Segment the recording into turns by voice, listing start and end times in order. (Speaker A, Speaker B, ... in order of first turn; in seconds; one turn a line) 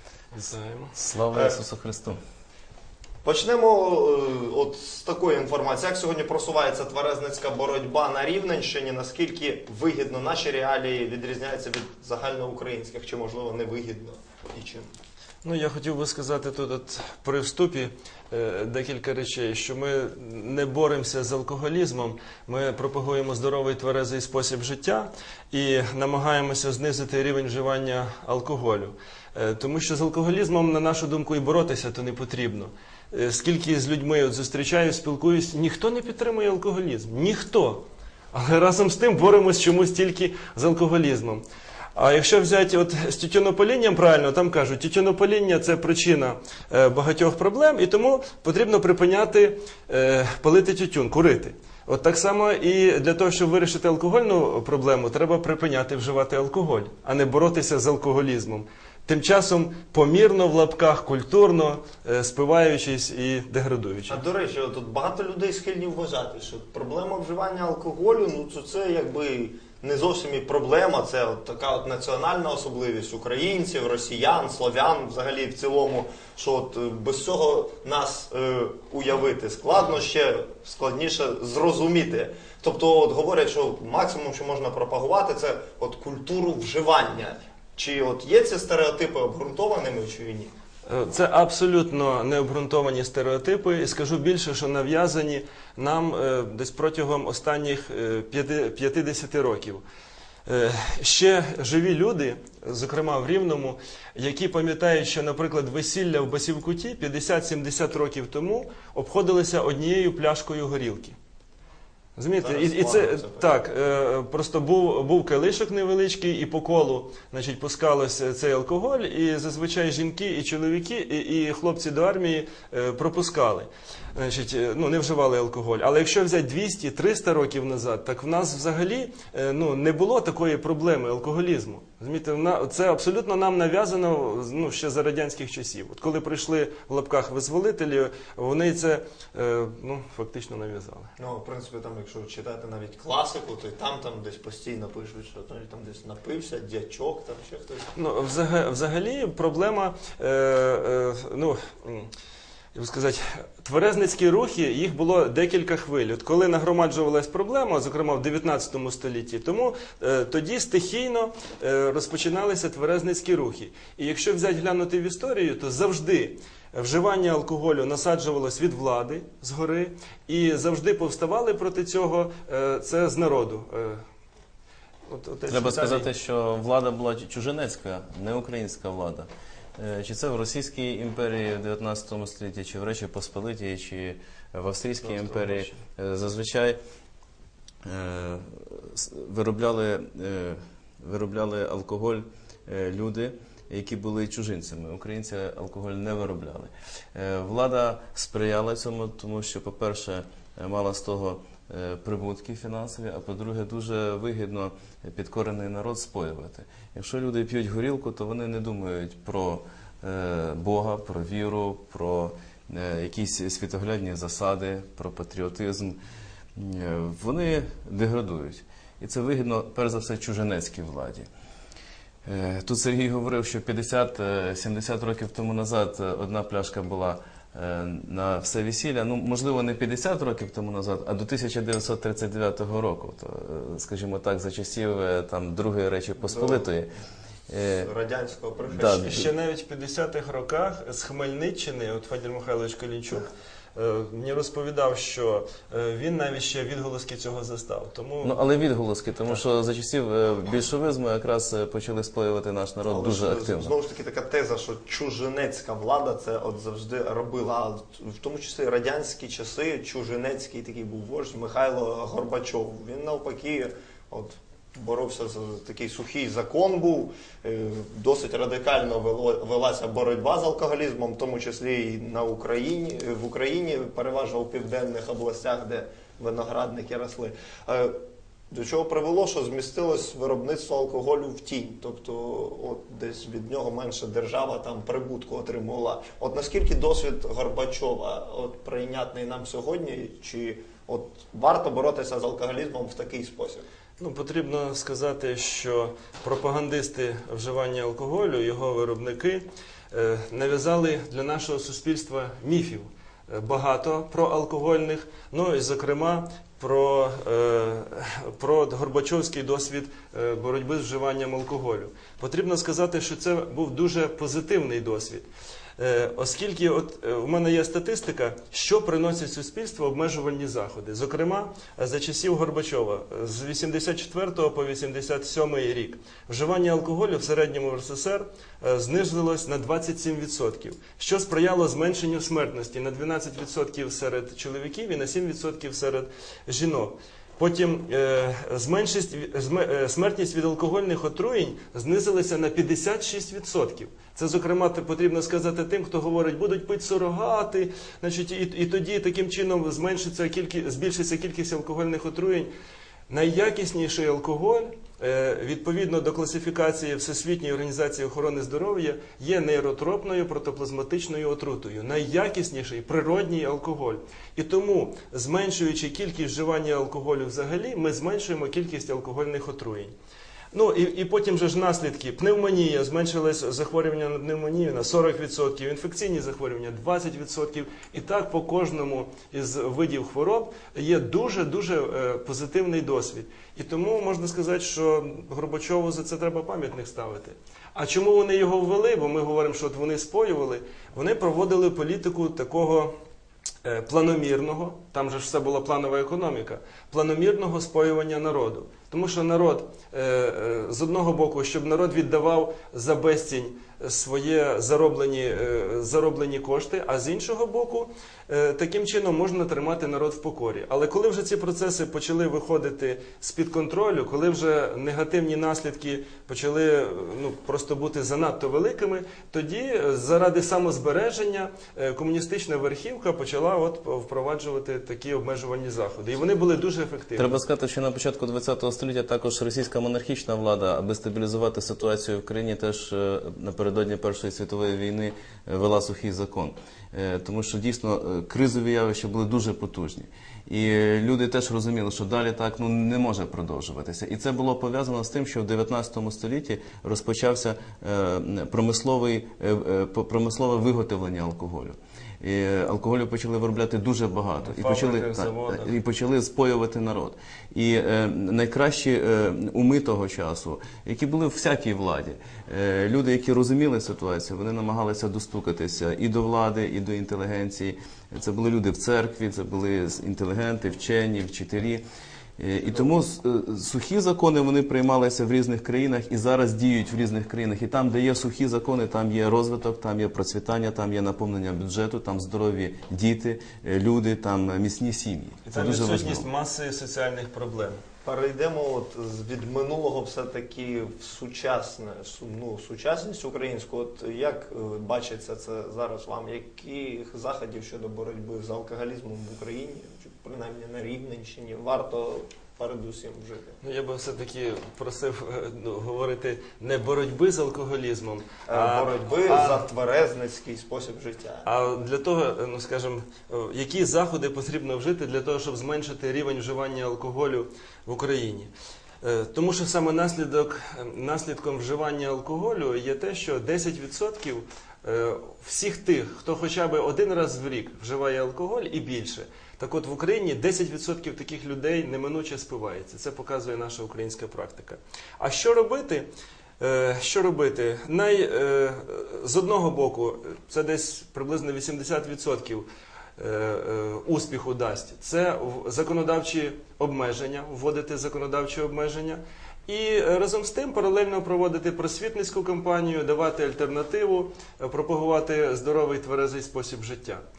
Speaker A: 0.3-0.9
Speaker B: 0.9-2.2
Speaker C: 1.3-1.6
Speaker C: 3.2-14.9
Speaker A: 15.4-41.4
Speaker A: 41.9-64.2
Speaker C: 64.1-90.5
Speaker A: 90.8-99.8
Speaker A: 100.5-111.2
Speaker A: 112.2-141.1
Speaker C: 112.4-113.5
Speaker C: 141.2-147.9
Speaker A: 147.9-152.1
Speaker A: 152.7-174.0
Speaker A: 175.1-176.1
Speaker B: 175.5-186.8
Speaker A: 185.2-185.7
Speaker B: 187.8-216.0
Speaker B: 216.5-221.3
Speaker B: 222.2-236.9
Speaker C: 236.2-236.7
Speaker B: 237.5-237.9
Speaker C: 237.7-239.3
Speaker B: 238.7-239.3
Speaker A: 238.9-248.3
Speaker B: 248.2-253.7
Speaker C: 252.8-278.0
Speaker C: 278.5-293.6
Speaker A: 294.0-315.2
Speaker A: 315.8-352.5
Speaker A: 353.1-369.9
Speaker A: 370.5-392.9
Speaker A: 393.6-427.4
Speaker B: 427.2-471.8
Speaker A: 454.4-455.7
Speaker B: 472.4-486.3
Speaker A: 485.4-487.8
Speaker C: 488.0-503.6
Speaker A: 503.6-509.6
Speaker C: 508.5-511.5
Speaker A: 511.4-518.5
Speaker A: 519.0-536.1
Speaker A: 536.6-557.2